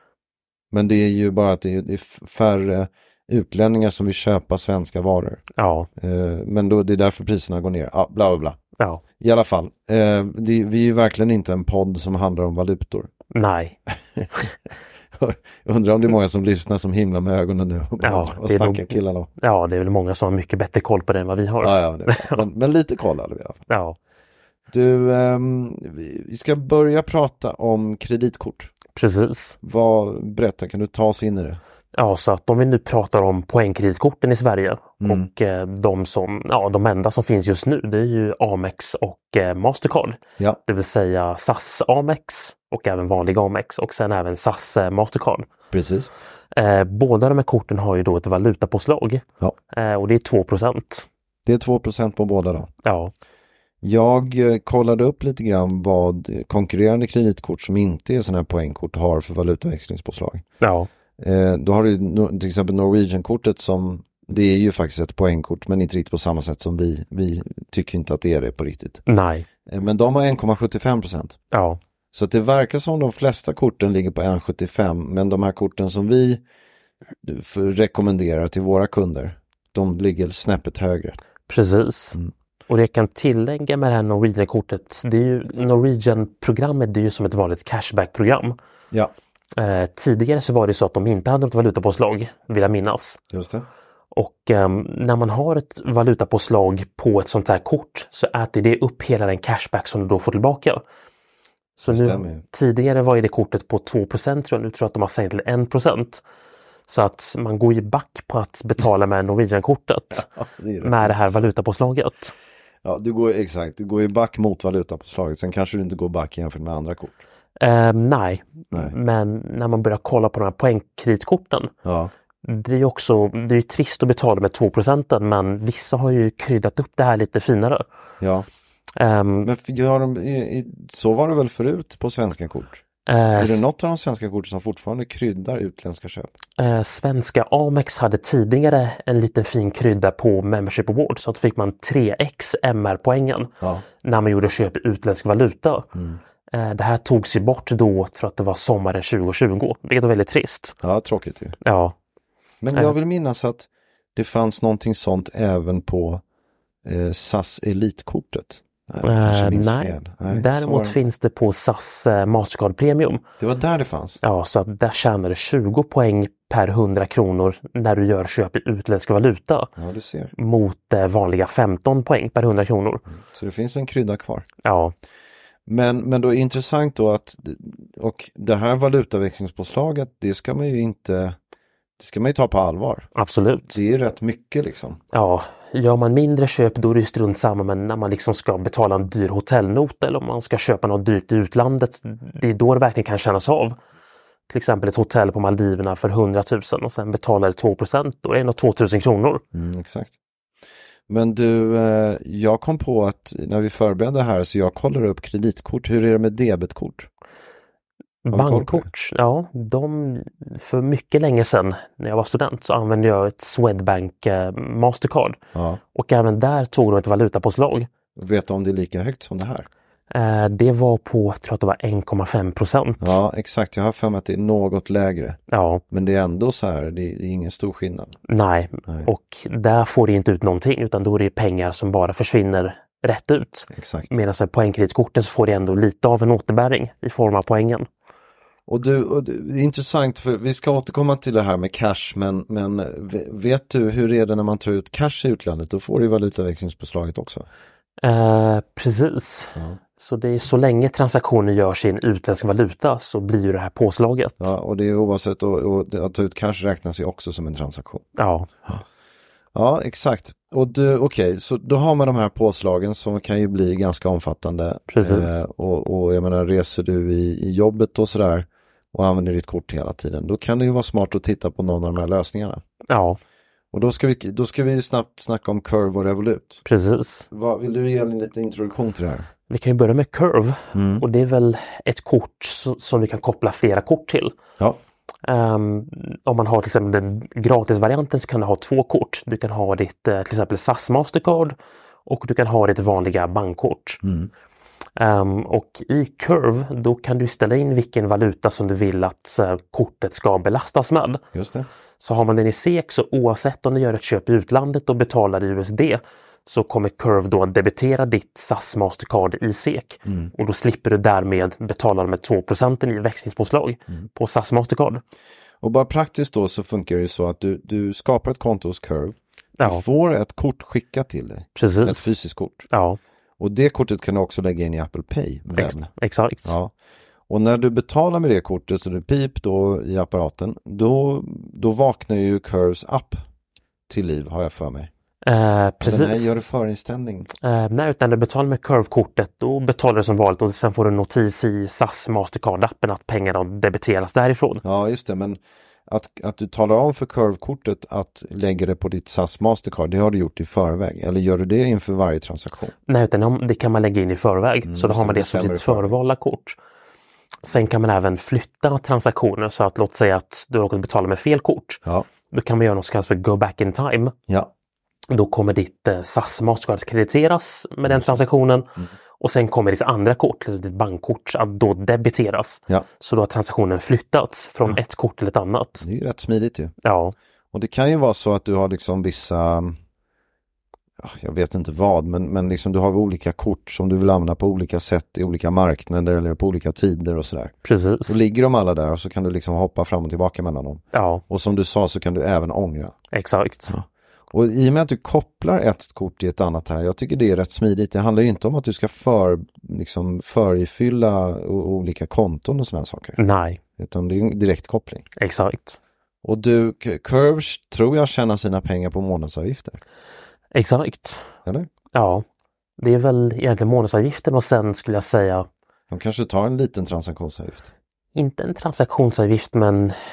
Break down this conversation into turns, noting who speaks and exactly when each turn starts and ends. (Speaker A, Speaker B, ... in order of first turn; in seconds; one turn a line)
Speaker A: 0.7-5.5
Speaker B: 5.6-5.9
Speaker A: 6.0-8.6
Speaker A: 9.2-13.1
Speaker B: 13.3-13.8
Speaker A: 14.2-14.5
Speaker A: 15.1-19.3
Speaker B: 18.0-22.4
Speaker A: 21.6-23.6
Speaker B: 23.7-24.0
Speaker A: 24.7-28.7
Speaker B: 29.0-29.6
Speaker A: 29.6-31.6
Speaker B: 31.9-45.5
Speaker A: 35.0-35.3
Speaker A: 45.7-46.1
Speaker B: 46.5-51.1
Speaker A: 51.5-52.7
Speaker B: 52.8-53.1
Speaker A: 53.8-60.4
Speaker B: 60.6-60.9
Speaker A: 61.2-69.0
Speaker B: 69.1-69.5
Speaker A: 69.7-71.4
Speaker B: 71.5-71.8
Speaker A: 72.1-76.4
Speaker A: 77.2-81.2
Speaker B: 81.5-88.6
Speaker B: 89.6-93.2
Speaker A: 93.3-93.7
Speaker B: 94.1-100.8
Speaker B: 101.8-106.2
Speaker A: 101.9-102.4
Speaker B: 106.9-110.2
Speaker A: 110.1-111.5
Speaker B: 110.8-112.3
Speaker A: 112.8-117.2
Speaker B: 117.6-121.7
Speaker A: 121.8-122.1
Speaker B: 122.4-127.8
Speaker A: 128.2-128.5
Speaker B: 129.0-129.5
Speaker A: 129.4-132.8
Speaker B: 133.1-133.6
Speaker A: 133.4-136.4
Speaker B: 136.6-143.5
Speaker B: 144.0-145.9
Speaker A: 145.9-146.2
Speaker B: 146.5-150.8
Speaker A: 150.8-151.6
Speaker B: 151.6-152.0
Speaker A: 152.6-156.2
Speaker A: 156.8-161.0
Speaker B: 159.0-163.2
Speaker A: 163.4-164.2
Speaker B: 164.2-169.7
Speaker A: 169.8-170.3
Speaker B: 170.4-173.0
Speaker A: 173.1-174.5
Speaker B: 174.6-174.9
Speaker A: 175.7-181.4
Speaker A: 182.0-183.1
Speaker B: 183.2-183.8
Speaker A: 183.7-185.0
Speaker B: 185.1-193.8
Speaker B: 194.5-199.4
Speaker A: 199.5-200.2
Speaker A: 201.1-207.1
Speaker B: 208.2-215.4
Speaker A: 208.3-208.9
Speaker A: 215.5-215.8
Speaker B: 215.9-217.9
Speaker A: 218.2-219.7
Speaker B: 220.1-223.2
Speaker A: 223.0-225.4
Speaker B: 225.5-225.8
Speaker A: 225.9-228.2
Speaker B: 228.3-237.9
Speaker A: 233.7-234.1
Speaker A: 238.7-247.5
Speaker B: 248.0-254.5
Speaker A: 254.4-258.1
Speaker B: 258.2-258.5
Speaker A: 259.5-272.6
Speaker B: 264.9-265.4
Speaker B: 272.9-273.2
Speaker A: 273.7-276.6
Speaker B: 276.6-277.3
Speaker A: 277.3-279.3
Speaker B: 279.5-284.4
Speaker A: 280.7-281.1
Speaker B: 285.2-294.0
Speaker A: 294.0-294.3
Speaker B: 295.0-301.2
Speaker A: 301.3-301.7
Speaker B: 302.0-315.0
Speaker A: 310.1-310.3
Speaker A: 315.6-322.7
Speaker B: 319.6-319.8
Speaker B: 321.6-322.1
Speaker B: 322.7-323.0
Speaker A: 323.4-325.9
Speaker B: 325.5-326.6
Speaker A: 326.4-326.7
Speaker A: 327.3-333.2
Speaker A: 333.9-334.9
Speaker B: 335.2-336.4
Speaker A: 335.8-337.3
Speaker B: 337.4-344.6
Speaker A: 344.6-352.7
Speaker B: 352.9-356.6
Speaker A: 354.6-355.9
Speaker B: 357.4-364.1
Speaker B: 365.1-375.9
Speaker A: 367.9-368.2
Speaker A: 375.8-376.7
Speaker B: 376.8-377.1
Speaker A: 377.5-379.8
Speaker A: 381.0-393.0
Speaker B: 387.6-388.2
Speaker B: 390.9-391.2
Speaker B: 393.1-393.7
Speaker A: 393.7-403.2
Speaker B: 403.2-403.6
Speaker A: 403.8-405.1
Speaker B: 405.2-405.8
Speaker A: 406.2-409.8
Speaker B: 410.5-411.3
Speaker B: 411.9-412.2
Speaker B: 412.8-415.5
Speaker A: 415.9-417.7
Speaker B: 418.1-420.0